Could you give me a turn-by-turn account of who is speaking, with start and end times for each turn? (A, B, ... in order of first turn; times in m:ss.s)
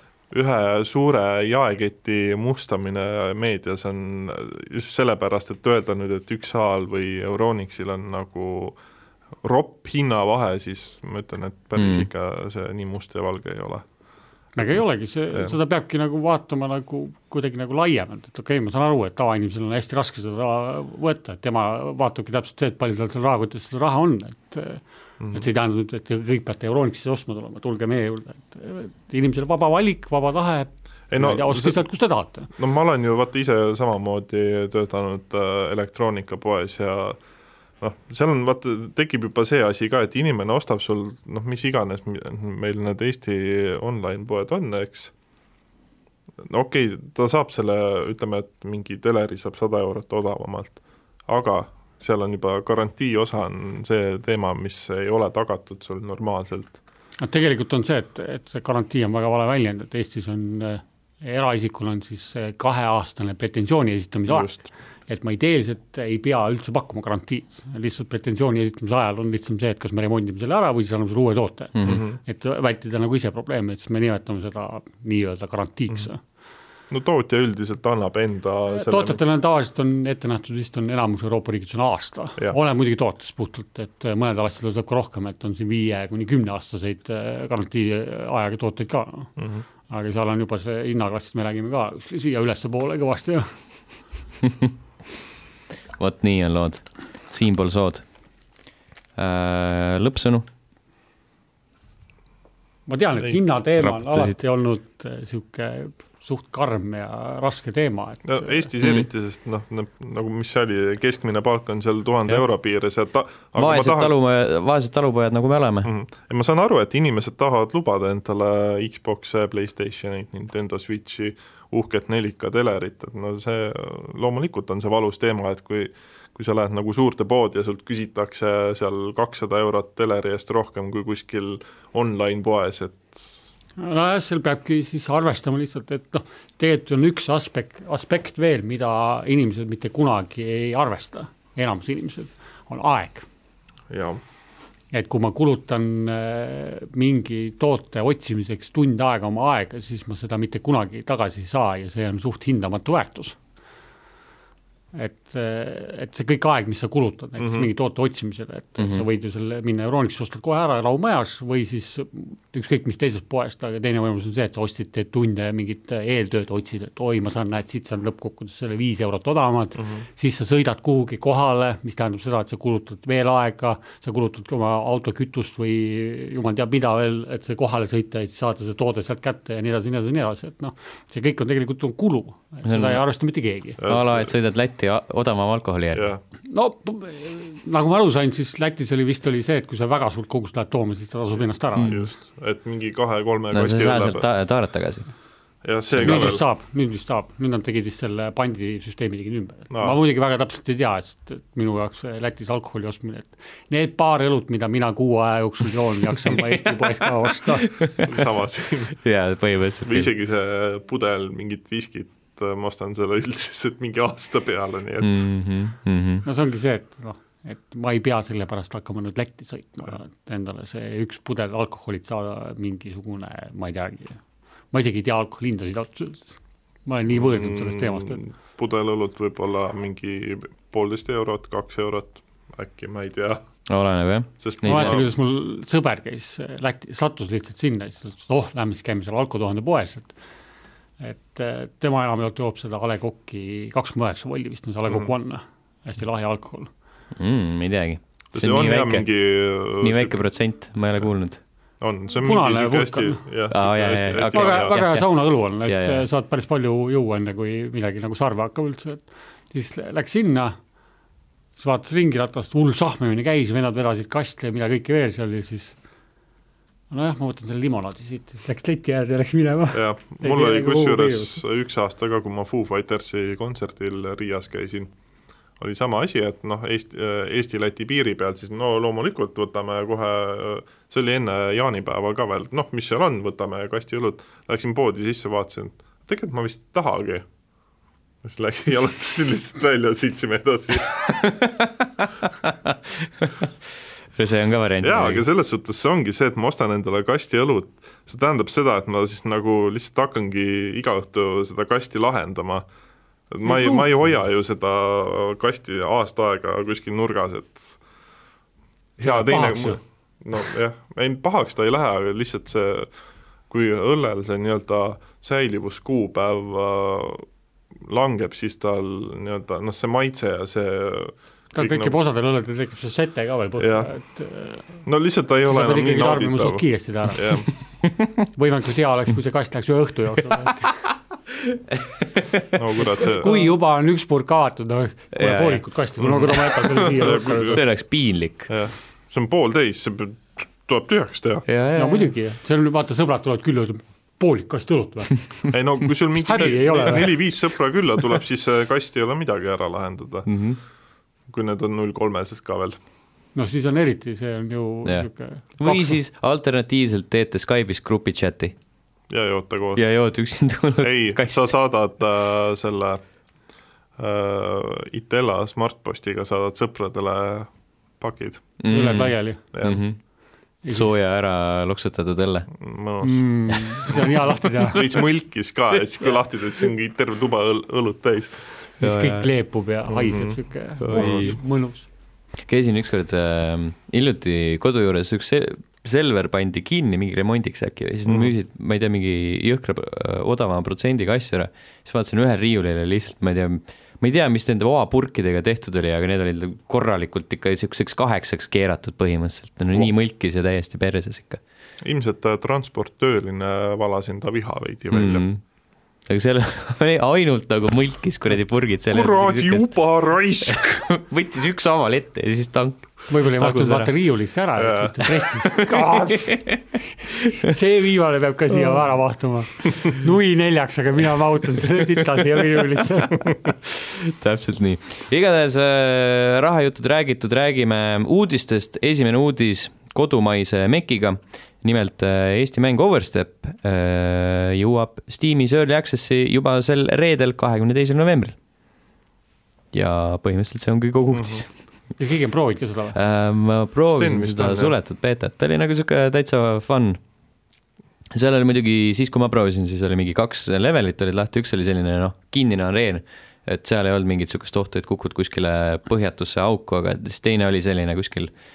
0:00.3-0:08.8 A
0:09.4-0:13.8 A
0:11.8-0:12.1 B
0:14.6-0:32.5 C
0:25.2-0:25.5 A
0:31.1-0:31.8 A
0:32.6-0:37.2 A
0:37.8-0:45.1 A
0:46.4-0:56.8 A
0:57.2-1:16.2 C
1:04.3-1:04.6 A
1:11.9-1:12.2 A
1:16.9-1:19.2 A
1:18.7-1:29.3 C
1:29.4-1:29.6 A
1:29.9-1:33.5 C
1:36.0-1:38.0 B
1:39.2-1:40.5 B
1:42.9-1:48.6 C
1:43.8-1:44.4 B
1:48.3-1:54.1 A
1:53.6-1:55.9 B
1:55.8-2:13.3 A
2:13.8-2:23.3 C
2:23.9-2:24.2 A
2:24.9-2:33.4 C
2:34.9-3:03.8 C
2:37.4-2:37.7 A
2:38.8-2:39.0 B
2:49.8-2:50.0 A
3:02.7-3:03.0 B
3:03.8-3:04.3 A
3:03.8-3:06.1 B
3:05.9-3:06.2 A
3:06.5-3:12.1 C
3:11.8-3:14.3 A
3:13.5-3:15.1 B
3:15.6-3:16.4 A
3:16.0-3:16.3 B
3:16.0-3:27.8 C
3:19.7-3:20.0 A
3:27.8-3:28.1 B
3:28.0-3:29.0 A
3:29.0-3:30.1 B
3:29.8-3:35.3 A
3:35.0-3:36.2 B
3:36.2-3:44.2 C
3:44.7-3:48.2 C
3:47.1-3:53.4 A
3:53.7-3:55.0 B
3:54.4-3:55.1 A
3:54.6-4:00.1 C
4:01.0-4:06.7 C
4:07.2-4:09.1 B
4:08.3-4:10.2 A
4:09.8-4:11.4 B
4:11.8-4:14.8 A
4:12.1-4:13.2 C
4:13.5-4:15.1 B
4:14.3-4:20.6 C
4:15.6-4:16.0 B
4:21.6-4:25.8 C
4:26.9-4:31.4 C
4:29.7-4:34.9 A
4:35.6-4:47.2 A
4:48.2-4:51.2 A
4:51.1-4:53.5 B
4:54.2-4:55.2 B
4:54.8-5:02.7 A
5:03.3-5:07.8 A
5:03.4-5:04.0 C
5:09.0-5:12.9 A
5:09.0-5:09.8 C
5:13.5-5:17.3 A
5:17.8-5:22.0 A
5:21.6-5:24.9 C
5:23.6-5:23.9 A
5:24.8-5:27.5 A
5:25.5-5:27.4 C
5:28.3-5:30.8 C
5:31.7-5:32.5 B
5:32.5-5:33.3 A
5:33.0-5:37.6 C
5:35.2-5:36.2 B
5:36.0-5:37.6 A
5:36.8-5:38.5 B
5:38.5-5:41.4 A
5:41.5-5:42.1 B
5:41.8-5:45.6 C
5:45.5-5:50.3 A
5:46.2-5:47.2 C
5:50.3-5:50.6 B
5:51.3-5:52.8 A
5:53.4-5:56.0 C
5:54.8-5:58.5 B
5:59.1-5:59.9 A
5:59.8-6:01.5 B
6:00.8-6:03.0 A
6:04.0-6:08.5 A
6:08.6-6:10.0 B
6:08.7-6:09.4 C
6:09.5-6:09.8 A
6:10.6-6:11.0 C
6:10.7-6:12.5 B
6:12.6-6:13.2 A
6:13.0-6:14.9 C
6:14.7-6:18.5 A
6:18.8-6:19.3 B
6:18.8-6:21.9 C
6:19.9-6:21.4 A
6:20.8-6:21.4 B
6:22.5-6:41.4 B
6:28.1-6:28.3 A
6:41.8-6:45.3 A
6:44.9-6:45.4 B
6:46.1-6:49.8 B
6:48.9-6:50.8 A
6:50.4-6:53.9 B
6:53.1-6:56.6 C
6:54.6-6:55.0 A
6:55.5-6:56.6 B
6:57.1-6:57.5 B
6:57.2-7:03.4 C
7:03.6-7:18.4 B
7:19.7-7:21.5 B
7:21.1-7:21.4 A
7:22.0-7:23.0 C
7:22.9-7:27.0 B
7:23.9-7:24.8 A
7:28.1-7:38.3 B